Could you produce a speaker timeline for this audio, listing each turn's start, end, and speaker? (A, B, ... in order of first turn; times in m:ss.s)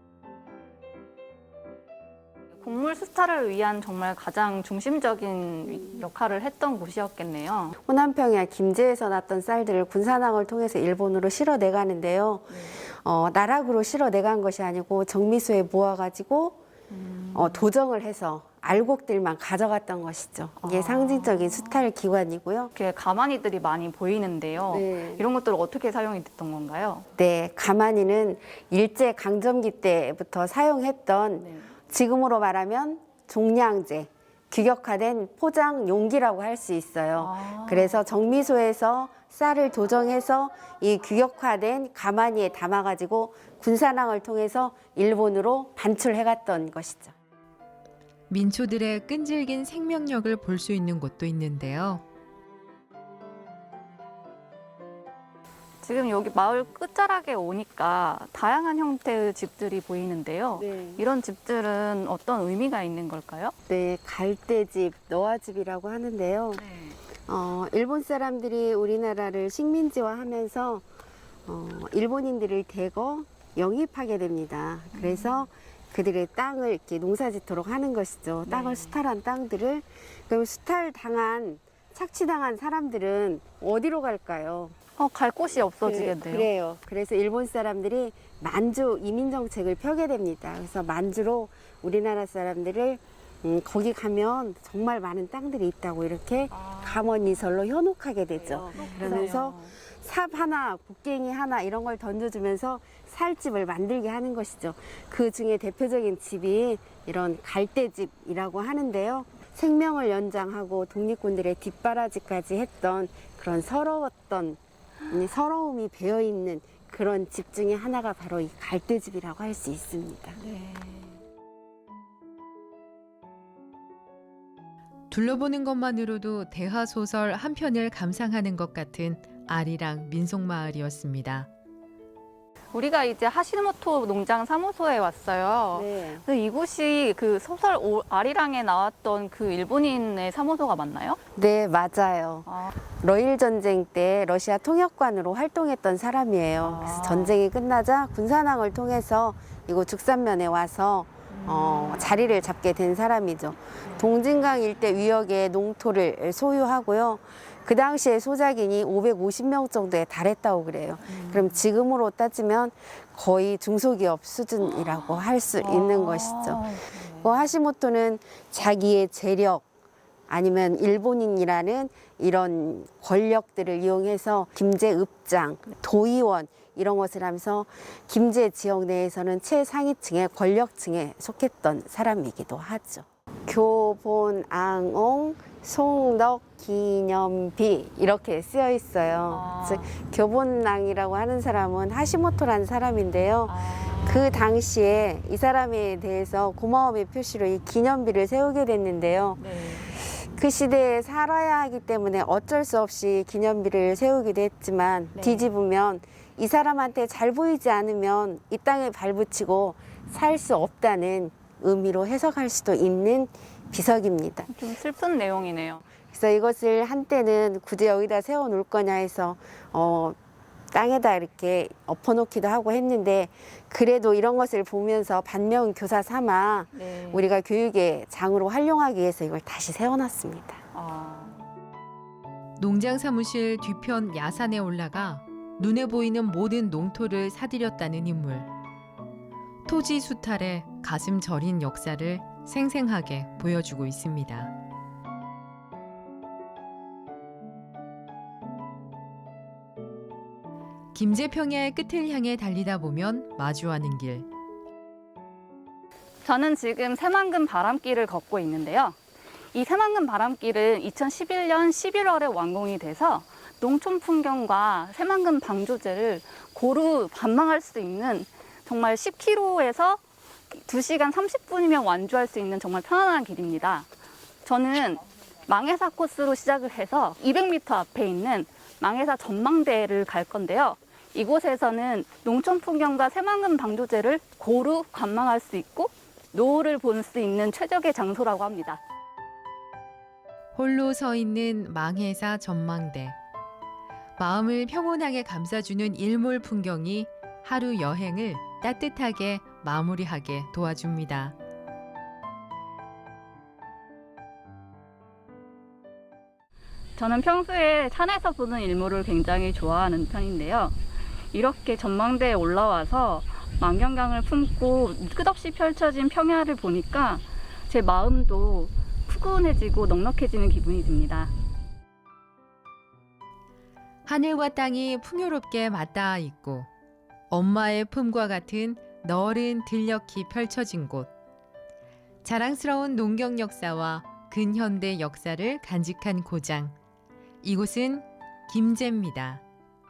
0:02.6-0:07.8 A
0:07.8-0:16.6 B
0:12.5-0:12.8 A
0:16.9-0:17.7 A
0:17.3-0:22.7 B
0:20.6-0:21.8 A
0:22.7-0:27.1 A
0:24.7-0:25.2 B
0:27.2-0:47.1 B
0:31.4-0:31.7 A
0:37.2-0:38.0 A
0:48.3-0:52.0 C
0:55.8-1:03.6 A
1:00.6-1:01.0 B
1:03.7-1:06.6 B
1:06.6-1:07.0 A
1:07.3-1:10.8 B
1:11.5-1:24.8 B
1:14.9-1:15.5 A
1:18.5-1:19.0 A
1:25.0-1:26.5 A
1:25.8-2:00.4 B
1:36.5-1:37.1 A
1:38.4-1:39.8 A
2:00.4-2:01.2 A
2:05.1-2:11.5 C
2:12.7-2:21.2 A
2:15.7-2:16.2 B
2:21.4-2:22.5 B
2:22.5-2:22.8 A
2:23.0-2:46.6 B
2:26.6-2:27.4 A
2:31.3-2:32.1 A
2:41.1-2:41.6 A
2:45.6-2:47.3 A
2:47.2-2:49.6 B
2:50.3-3:34.5 B
3:09.3-3:09.9 A
3:13.5-3:14.5 A
3:19.4-3:19.9 A
3:25.2-3:25.5 A
3:34.5-3:35.8 A
3:36.1-3:40.2 B
3:40.7-3:50.6 B
3:46.8-3:47.2 A
3:50.7-3:51.4 A
3:52.6-3:58.5 C
3:59.7-4:04.5 C
4:10.9-4:14.3 C
4:16.2-4:19.0 A
4:19.5-4:30.0 A
4:30.5-4:33.9 A
4:34.4-4:48.8 A
4:50.6-4:53.2 C
4:54.2-5:01.4 C
5:07.0-5:10.8 A
5:11.3-5:21.3 A
5:24.1-5:26.7 C
5:27.3-5:31.1 C
5:32.2-5:36.8 C
5:37.4-5:39.4 C